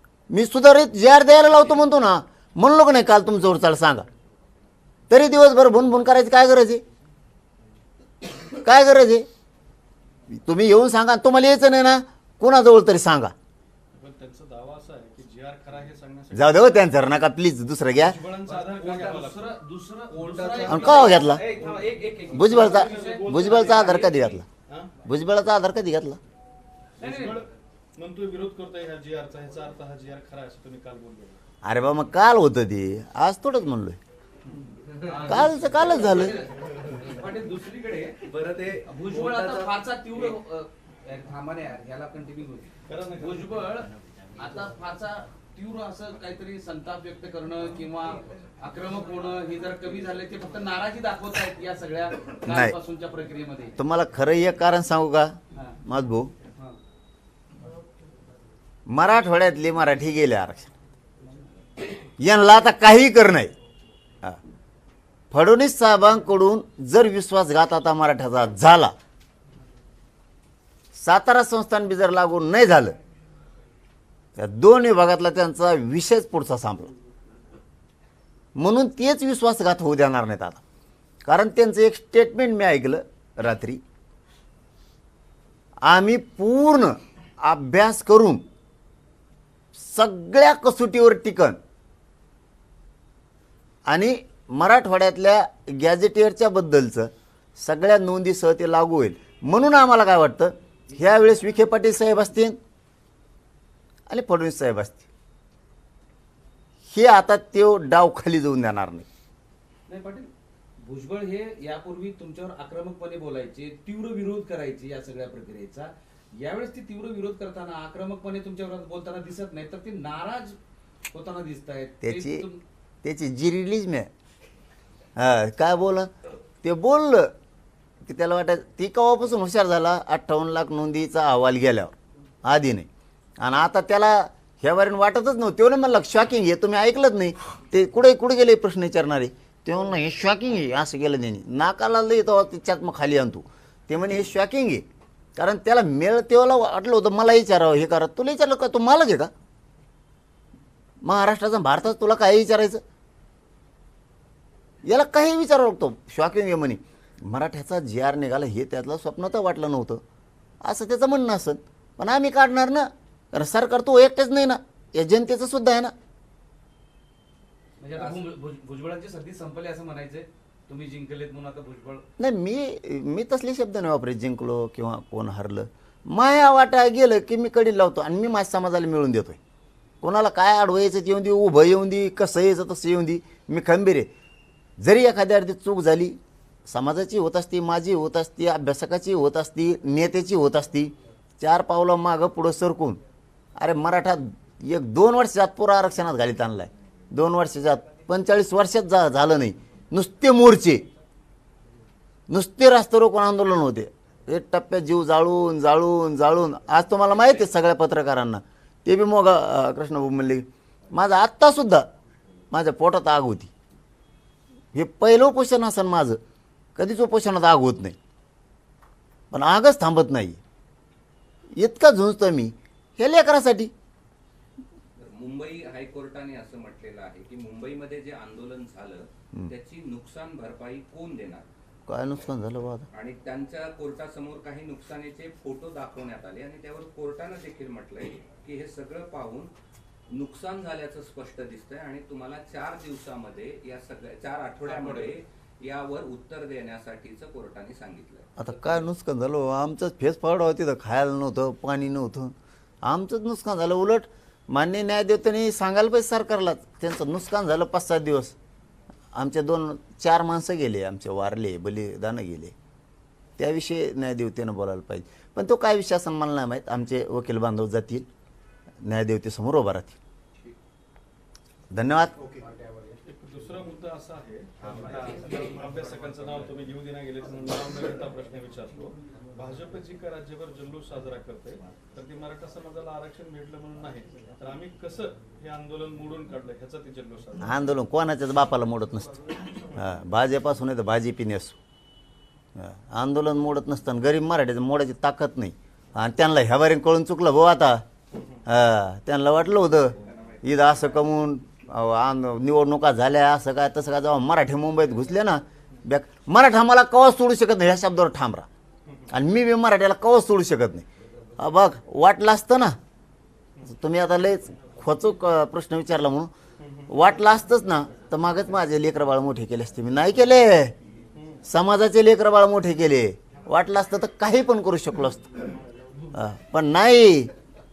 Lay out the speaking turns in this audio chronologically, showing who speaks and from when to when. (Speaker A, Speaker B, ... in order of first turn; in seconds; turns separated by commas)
Speaker A: 0.3-4.1, Speaker A: 5.1-6.8, Speaker A: 8.5-9.2, Speaker A: 10.3-13.3, Speaker B: 13.9-16.8, Speaker A: 16.3-18.2, Speaker B: 18.0-19.5, Speaker C: 18.5-24.4, Speaker D: 20.1-21.2, Speaker A: 20.6-21.4, Speaker B: 21.5-23.9, Speaker A: 22.3-24.4, Speaker B: 24.7-24.9, Speaker A: 25.1-26.2, Speaker C: 27.0-27.4, Speaker B: 27.0-31.4, Speaker A: 31.6-34.0, Speaker C: 35.0-38.2, Speaker A: 35.2-36.4, Speaker D: 38.2-40.3, Speaker C: 38.9-42.7, Speaker B: 42.9-43.4, Speaker C: 43.2-53.8, Speaker A: 52.5-52.8, Speaker A: 53.8-56.3, Speaker A: 58.9-60.7, Speaker A: 62.2-63.5, Speaker A: 65.3-68.9, Speaker A: 71.0-73.0, Speaker A: 74.3-76.9, Speaker A: 78.6-80.6, Speaker A: 81.2-83.8, Speaker A: 85.8-88.4, Speaker A: 89.8-91.6, Speaker A: 93.9-102.6, Speaker A: 104.1-105.1, Speaker A: 106.9-109.0, Speaker C: 109.9-120.6, Speaker C: 121.1-122.6, Speaker A: 122.0-122.5, Speaker A: 123.0-124.1, Speaker A: 125.2-126.1, Speaker A: 126.6-127.3, Speaker A: 128.1-132.9, Speaker A: 133.4-144.8, Speaker A: 145.4-149.3, Speaker A: 151.0-152.8, Speaker A: 154.8-160.0, Speaker A: 160.6-165.9, Speaker C: 167.8-172.0, Speaker A: 172.2-179.4, Speaker A: 180.0-184.1, Speaker A: 184.8-193.0, Speaker A: 193.6-200.8, Speaker A: 202.3-211.8, Speaker A: 212.5-213.5, Speaker A: 214.7-216.2, Speaker A: 216.8-217.9, Speaker A: 219.3-220.4, Speaker A: 221.6-223.7, Speaker E: 225.0-231.4, Speaker A: 231.9-232.9, Speaker E: 232.9-239.5, Speaker E: 240.1-248.9, Speaker C: 244.6-245.1, Speaker A: 248.4-252.3, Speaker A: 252.8-258.3, Speaker A: 259.1-262.5, Speaker A: 263.4-268.1, Speaker A: 268.8-270.0, Speaker A: 271.7-272.2, Speaker B: 273.1-287.6, Speaker A: 287.4-289.1, Speaker A: 289.7-291.6, Speaker A: 292.6-297.8, Speaker A: 298.4-308.5, Speaker B: 308.9-309.1, Speaker A: 309.1-310.9, Speaker A: 311.4-312.8, Speaker A: 313.6-316.3, Speaker B: 316.6-316.9, Speaker A: 316.9-320.7, Speaker B: 321.1-321.4, Speaker A: 321.4-325.4, Speaker A: 326.1-327.3